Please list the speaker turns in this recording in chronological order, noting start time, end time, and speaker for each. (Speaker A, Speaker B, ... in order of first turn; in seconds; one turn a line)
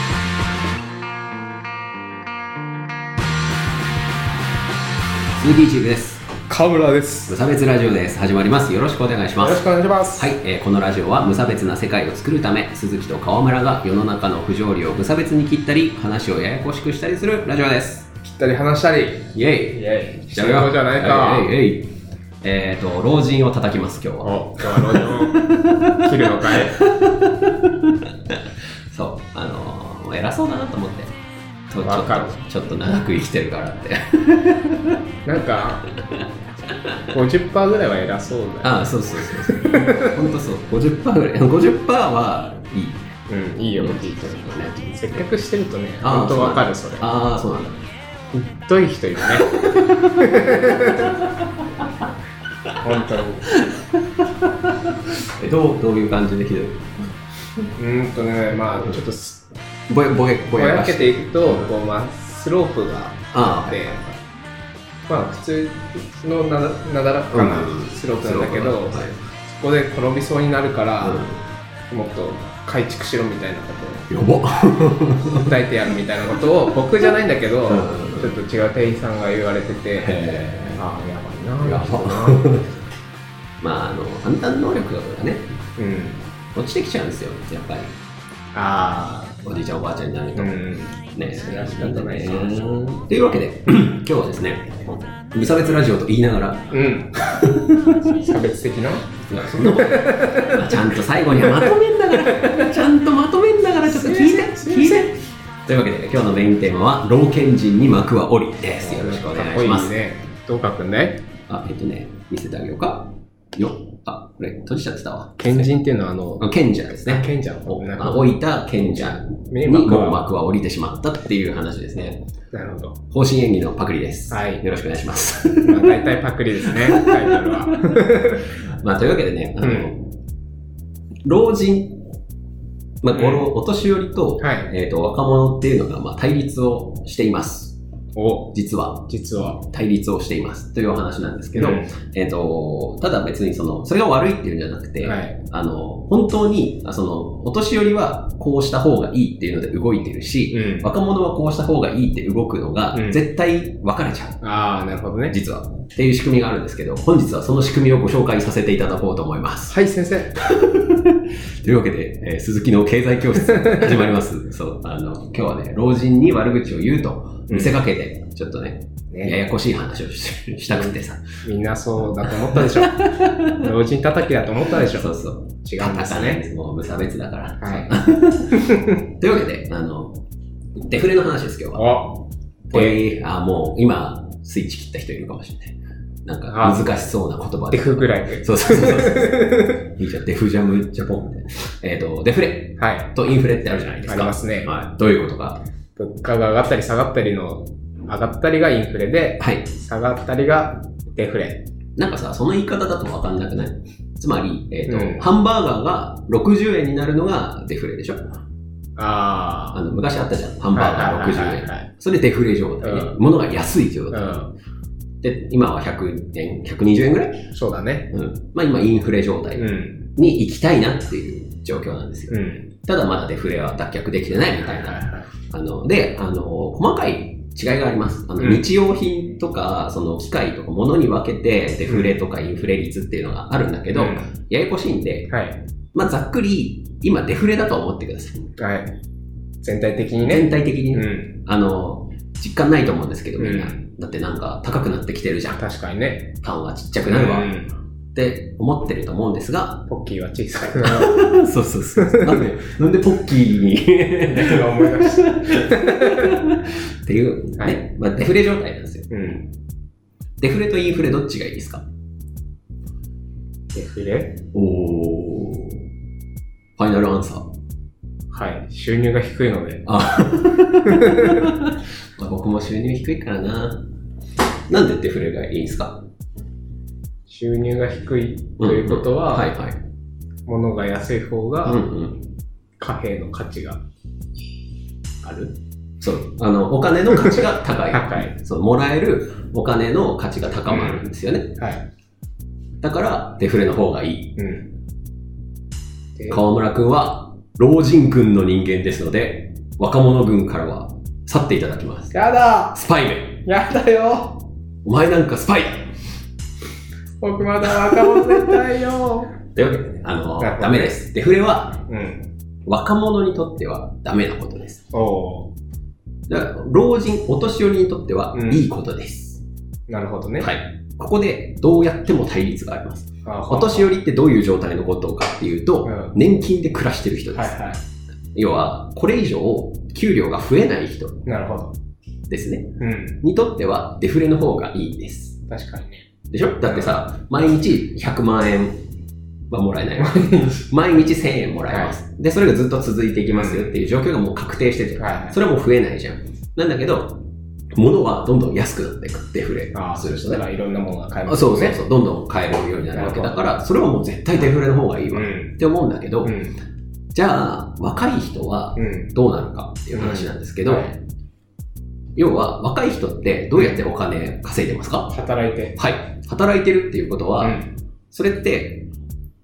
Speaker A: 5.3-6.3
Speaker B: 6.5-7.3
Speaker A: 7.3-18.1
Speaker B: 9.4-10.3
Speaker B: 18.2-21.5
Speaker A: 19.3-31.1
Speaker B: 24.2-26.8
Speaker A: 31.7-35.0
Speaker B: 31.8-32.4
Speaker B: 35.2-35.9
Speaker B: 37.1-40.3
Speaker A: 38.6-43.1
Speaker B: 43.3-47.1
Speaker A: 43.8-45.1
Speaker A: 46.0-47.8
Speaker B: 48.3-51.2
Speaker A: 49.6-51.9
Speaker A: 52.6-53.0
Speaker B: 52.8-53.5
Speaker A: 53.5-56.9
Speaker B: 57.7-59.4
Speaker A: 59.9-61.7
Speaker B: 60.5-64.2
Speaker A: 63.3-64.0
Speaker B: 65.1-71.2
Speaker A: 67.3-69.2
Speaker A: 71.0-71.4
Speaker B: 71.9-74.1
Speaker A: 74.1-75.5
Speaker B: 75.2-82.6
Speaker A: 77.7-78.4
Speaker A: 80.0-80.8
Speaker A: 81.6-82.7
Speaker A: 83.6-85.5
Speaker B: 85.8-86.2
Speaker A: 86.5-87.9
Speaker B: 88.5-89.4
Speaker A: 89.4-98.2
Speaker B: 90.3-92.6
Speaker B: 96.7-97.2
Speaker B: 98.1-102.7
Speaker A: 99.3-109.9
Speaker B: 103.8-105.1
Speaker B: 108.8-111.2
Speaker A: 111.5-115.7
Speaker B: 115.4-116.5
Speaker A: 116.4-122.2
Speaker B: 117.0-118.4
Speaker B: 119.5-120.2
Speaker B: 122.5-123.0
Speaker A: 123.1-126.0
Speaker B: 124.3-124.6
Speaker B: 125.6-128.5
Speaker A: 126.7-130.2
Speaker B: 129.6-129.9
Speaker A: 131.2-132.0
Speaker A: 133.0-137.8
Speaker B: 133.1-133.5
Speaker B: 134.4-134.7
Speaker B: 138.2-139.6
Speaker A: 138.5-154.4
Speaker B: 141.5-141.9
Speaker B: 145.0-145.4
Speaker B: 150.5-150.9
Speaker B: 152.9-153.2
Speaker B: 154.4-155.3
Speaker A: 155.3-159.8
Speaker B: 159.7-160.4
Speaker A: 160.3-171.4
Speaker B: 163.6-163.9
Speaker B: 167.5-167.8
Speaker B: 169.1-169.4
Speaker B: 170.7-176.4
Speaker A: 172.3-173.7
Speaker A: 174.8-180.2
Speaker B: 177.6-179.0
Speaker A: 180.8-182.0
Speaker B: 181.7-183.0
Speaker A: 182.7-195.6
Speaker B: 186.5-187.0
Speaker B: 187.7-189.9
Speaker B: 192.8-193.1
Speaker B: 194.0-194.7
Speaker B: 195.9-201.6
Speaker A: 199.4-199.7
Speaker A: 202.0-208.3
Speaker B: 204.9-205.3
Speaker B: 208.9-209.8
Speaker A: 209.7-214.4
Speaker B: 210.7-211.9
Speaker B: 212.8-213.2
Speaker B: 214.1-214.5
Speaker A: 215.2-217.5
Speaker B: 217.5-218.1
Speaker A: 218.1-235.3
Speaker B: 219.6-220.1
Speaker B: 222.3-222.7
Speaker B: 224.5-225.3
Speaker B: 228.4-228.7
Speaker B: 231.8-232.2
Speaker B: 233.9-234.3
Speaker B: 235.3-235.6
Speaker A: 235.9-238.5
Speaker B: 238.6-238.9
Speaker B: 239.6-241.4
Speaker A: 240.2-245.6
Speaker B: 243.4-243.8
Speaker B: 245.5-246.3
Speaker A: 246.4-247.5
Speaker B: 247.0-247.7
Speaker A: 248.1-249.9
Speaker B: 249.9-251.2
Speaker A: 250.8-259.1
Speaker B: 252.0-252.4
Speaker B: 254.2-256.4
Speaker B: 257.6-257.8
Speaker B: 259.1-259.5
Speaker A: 260.4-261.8
Speaker B: 263.7-264.4
Speaker A: 264.5-265.8
Speaker A: 266.8-267.5
Speaker B: 268.3-269.9
Speaker A: 269.9-273.9
Speaker B: 270.9-271.5
Speaker A: 274.7-276.0
Speaker B: 277.3-279.5
Speaker A: 278.6-279.8
Speaker B: 280.4-281.9
Speaker A: 281.6-282.3
Speaker B: 282.8-283.8
Speaker B: 285.2-285.6
Speaker A: 286.0-291.6
Speaker B: 287.1-288.3
Speaker B: 290.7-291.9
Speaker A: 292.8-294.4
Speaker B: 294.4-294.7
Speaker B: 296.1-296.4
Speaker A: 296.3-302.1
Speaker B: 302.1-302.8
Speaker A: 302.7-303.4
Speaker B: 303.4-304.4
Speaker A: 304.8-305.9
Speaker B: 307.2-309.4
Speaker A: 307.8-308.4
Speaker A: 309.5-311.8
Speaker B: 310.4-311.0
Speaker B: 311.9-312.3
Speaker A: 312.6-314.8
Speaker B: 314.9-315.5
Speaker A: 316.3-319.4
Speaker B: 318.3-318.7
Speaker B: 319.9-320.5
Speaker A: 320.4-327.7
Speaker B: 323.2-323.9
Speaker B: 325.8-326.1
Speaker B: 327.3-327.8
Speaker A: 328.3-331.2
Speaker B: 331.2-331.7
Speaker A: 332.3-335.4
Speaker B: 332.8-333.2
Speaker B: 335.4-336.1
Speaker A: 336.3-338.8
Speaker B: 336.6-337.0
Speaker A: 339.5-350.4
Speaker B: 340.0-340.6
Speaker B: 341.7-342.0
Speaker B: 343.3-343.8
Speaker B: 345.0-345.4
Speaker B: 349.7-351.8
Speaker A: 351.2-356.4
Speaker B: 352.9-353.4
Speaker B: 355.1-355.6
Speaker B: 356.2-356.6
Speaker A: 357.1-360.9
Speaker B: 358.8-359.1
Speaker B: 359.9-360.9
Speaker A: 362.1-365.1
Speaker B: 363.5-363.9
Speaker B: 365.1-365.8
Speaker A: 365.8-368.9
Speaker B: 367.4-367.7